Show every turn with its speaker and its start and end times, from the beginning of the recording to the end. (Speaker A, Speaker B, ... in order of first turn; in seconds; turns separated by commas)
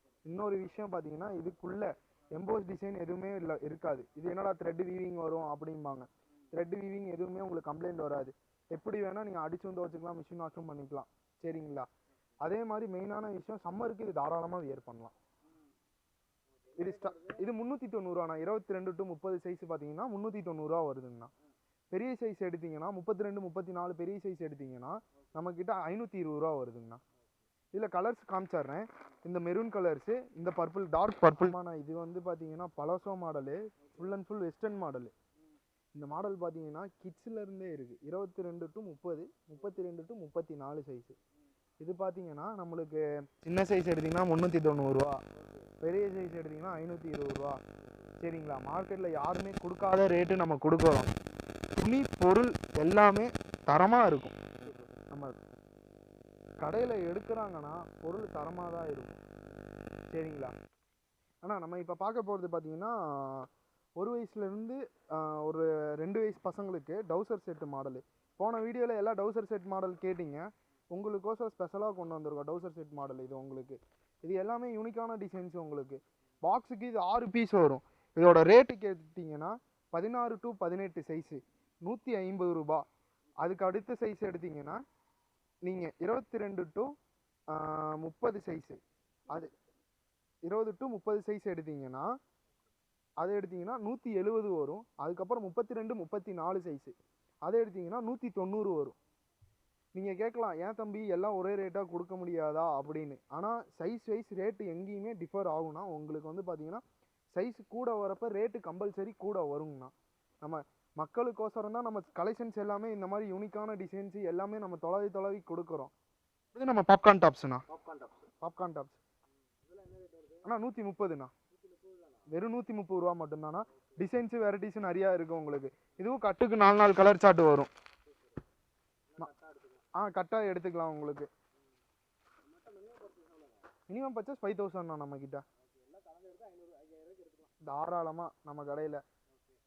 Speaker A: 0.3-11.9, Speaker A: 12.4-15.1, Speaker B: 16.7-17.4, Speaker A: 16.8-21.3, Speaker A: 21.9-27.0, Speaker A: 27.7-35.1, Speaker A: 36.0-41.2, Speaker A: 41.8-45.2, Speaker B: 45.4-45.7, Speaker A: 45.8-47.6, Speaker A: 48.2-51.1, Speaker A: 51.8-54.4, Speaker A: 55.1-55.4, Speaker A: 56.6-59.2, Speaker A: 60.1-60.5, Speaker A: 61.4-82.8, Speaker A: 83.4-84.8, Speaker A: 85.6-86.9, Speaker A: 87.5-89.5, Speaker A: 90.5-92.1, Speaker A: 93.2-96.9, Speaker A: 97.5-99.0, Speaker A: 99.9-115.9, Speaker A: 116.5-117.6, Speaker B: 117.7-118.2, Speaker A: 118.4-119.0, Speaker B: 119.6-120.5, Speaker A: 120.5-121.3, Speaker B: 121.5-122.3, Speaker A: 122.3-127.7, Speaker B: 128.1-128.4, Speaker B: 129.1-129.8, Speaker A: 130.0-131.3, Speaker B: 132.4-133.7, Speaker A: 133.9-135.4, Speaker B: 135.6-137.5, Speaker A: 137.6-139.0